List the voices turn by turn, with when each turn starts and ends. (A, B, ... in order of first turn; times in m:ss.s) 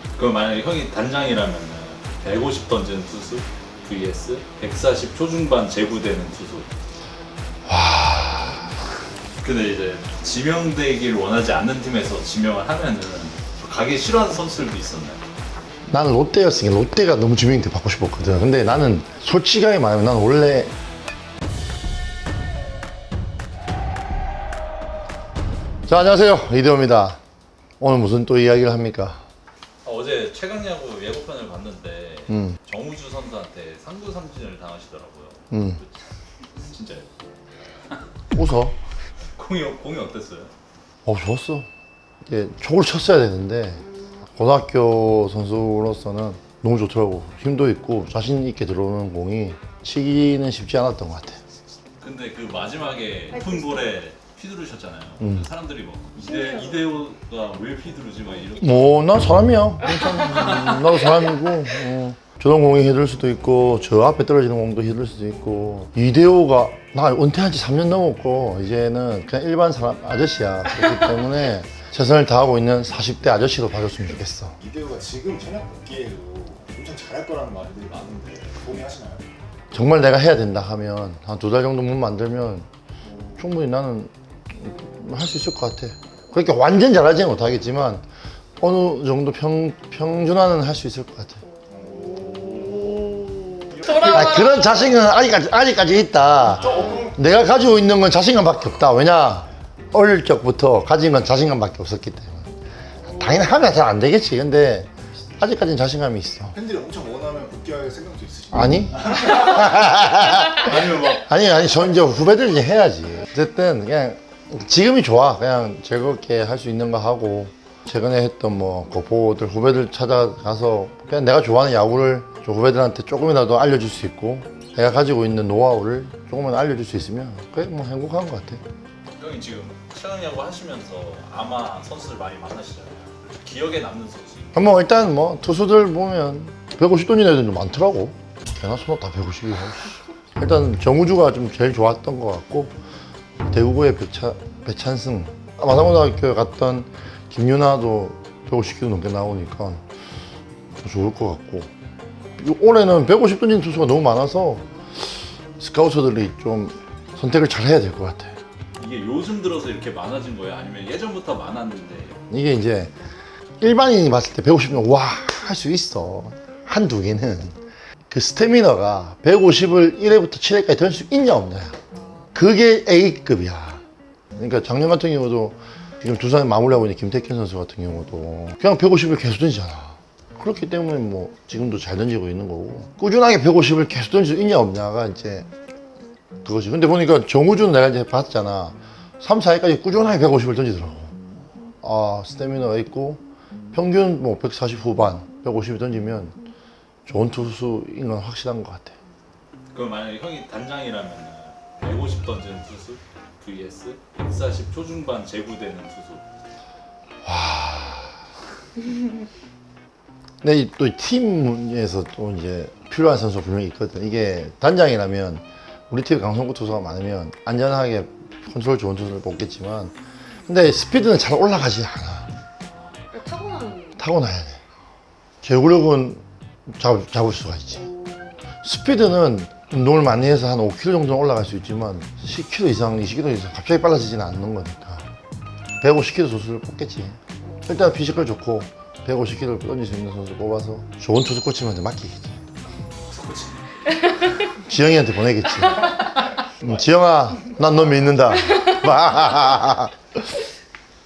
0:00.1-0:06.7 A
0:07.6-0:08.7 B
0:09.4-0:15.2 A
0:15.9-0:20.7 B
0:25.9-0:27.2 B
0:27.8-0:29.2 B
0:29.8-0:36.0 A
0:32.3-0:32.6 B
0:35.5-0:35.8 B
0:36.7-0:37.1 A
0:38.3-0:38.8 B
0:39.4-0:40.5 A
0:41.0-0:41.7 B
0:42.2-0:51.4 B
0:52.0-0:58.9 A
0:55.2-0:55.5 B
0:56.2-0:56.8 C
0:58.6-1:14.6 B
0:59.9-1:00.9 A
1:14.6-1:19.3 D
1:19.7-1:22.7 B
1:23.4-1:28.1 B
1:28.6-1:31.4 B
1:31.8-1:34.7 C
1:31.8-1:33.0 A
1:31.9-1:32.8 D
1:33.8-1:34.1 A
1:33.8-1:42.5 B
1:36.6-1:37.3 D
1:36.6-1:37.0 A
1:43.0-1:46.6 B
1:46.5-1:49.8 D
1:48.5-2:08.6 B
1:50.4-1:51.3 A
2:09.2-2:14.6 A
2:14.5-2:22.8 B
2:23.4-2:29.8 B
2:30.8-2:31.7 B
2:32.4-2:34.7 B
2:35.6-2:38.4 B
2:38.8-2:42.2 A
2:42.3-2:42.9 B
2:43.6-2:51.8 B
2:52.3-2:53.8 B
2:54.3-3:05.5 B
3:06.4-3:11.2 B
3:11.8-3:16.4 B
3:17.0-3:19.0 B
3:19.7-3:26.2 A
3:27.2-3:28.2 B
3:30.4-3:39.9 B
3:40.4-3:42.3 B
3:43.1-3:44.0 C
3:44.0-3:44.6 B
3:45.4-3:47.9 B
3:47.7-3:48.4 C
3:48.6-3:55.1 B
3:55.8-4:02.4 B
4:03.1-4:03.6 A
4:04.4-4:10.3 B
4:05.8-4:06.8 A